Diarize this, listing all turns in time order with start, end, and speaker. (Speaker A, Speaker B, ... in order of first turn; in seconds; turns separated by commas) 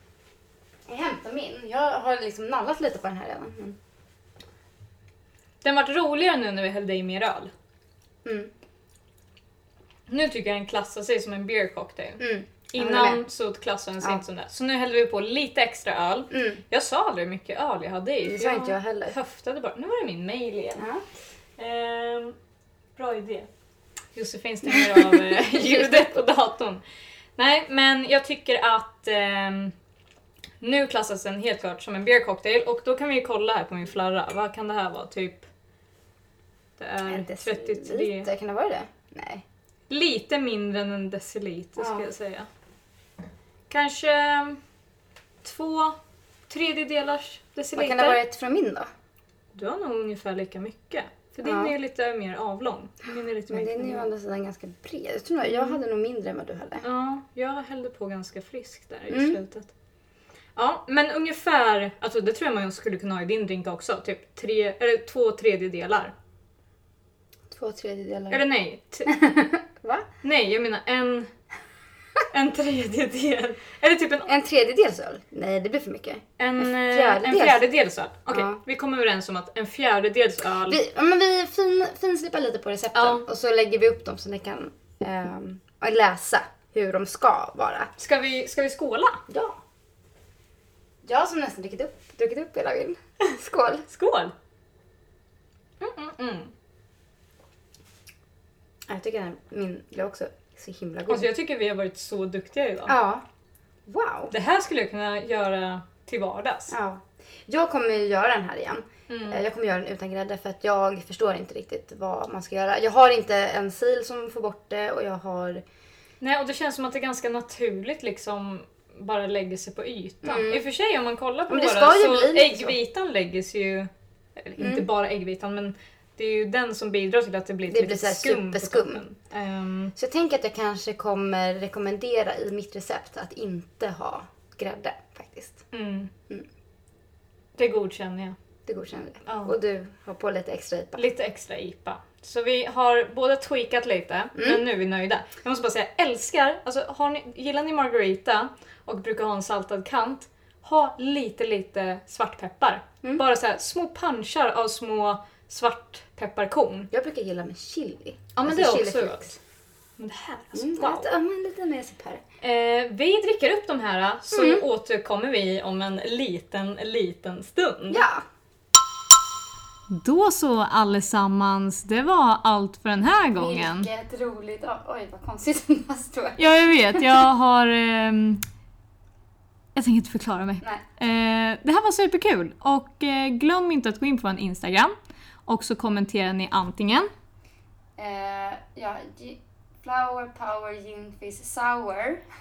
Speaker A: 0.9-3.8, Speaker B: 5.6-7.5, Speaker A: 8.2-8.5, Speaker B: 10.1-20.9, Speaker A: 12.2-13.2, Speaker A: 16.3-16.6, Speaker A: 18.2-19.1, Speaker A: 20.8-21.0, Speaker B: 21.6-22.3, Speaker B: 22.9-23.5, Speaker B: 24.1-26.8, Speaker A: 24.7-25.9, Speaker B: 27.4-29.7, Speaker B: 30.6-35.5, Speaker B: 36.8-38.3, Speaker A: 37.1-39.4, Speaker B: 39.9-42.5, Speaker A: 41.8-42.0, Speaker B: 43.7-44.6, Speaker B: 45.4-46.0, Speaker B: 46.5-48.2, Speaker A: 47.8-48.9, Speaker B: 49.5-54.1, Speaker A: 51.5-51.7, Speaker A: 53.5-56.8, Speaker B: 55.5-55.8, Speaker B: 56.8-59.7, Speaker A: 59.1-59.4, Speaker B: 60.5-66.1, Speaker A: 67.5-68.4, Speaker B: 68.3-69.2, Speaker A: 69.1-70.1, Speaker B: 70.2-71.3, Speaker B: 72.3-74.3, Speaker A: 74.3-77.6, Speaker B: 76.4-80.8, Speaker A: 78.3-78.6, Speaker A: 80.7-87.9, Speaker B: 83.0-83.2, Speaker B: 88.0-89.2, Speaker A: 89.3-89.6, Speaker A: 91.0-93.8, Speaker B: 93.9-94.3, Speaker B: 95.8-96.5, Speaker A: 98.9-101.3, Speaker B: 101.1-103.0, Speaker A: 102.9-103.2, Speaker A: 103.9-104.3, Speaker B: 104.3-106.8, Speaker A: 106.7-115.6, Speaker B: 109.1-109.4, Speaker B: 116.2-129.9, Speaker A: 120.2-120.6, Speaker A: 121.5-122.8, Speaker A: 124.6-124.9, Speaker A: 127.7-129.0, Speaker A: 129.9-135.6, Speaker B: 135.7-136.1, Speaker B: 137.6-138.4, Speaker A: 138.7-141.0, Speaker B: 139.2-139.6, Speaker B: 140.9-156.9, Speaker A: 144.4-144.6, Speaker A: 156.9-159.4, Speaker B: 158.3-159.3, Speaker B: 160.0-161.1, Speaker A: 160.5-162.2, Speaker B: 162.4-168.1, Speaker A: 164.3-164.6, Speaker A: 167.9-168.2, Speaker B: 169.9-173.9, Speaker A: 173.4-177.1, Speaker B: 176.4-178.4, Speaker B: 179.7-184.9, Speaker B: 185.5-187.1, Speaker A: 188.0-192.2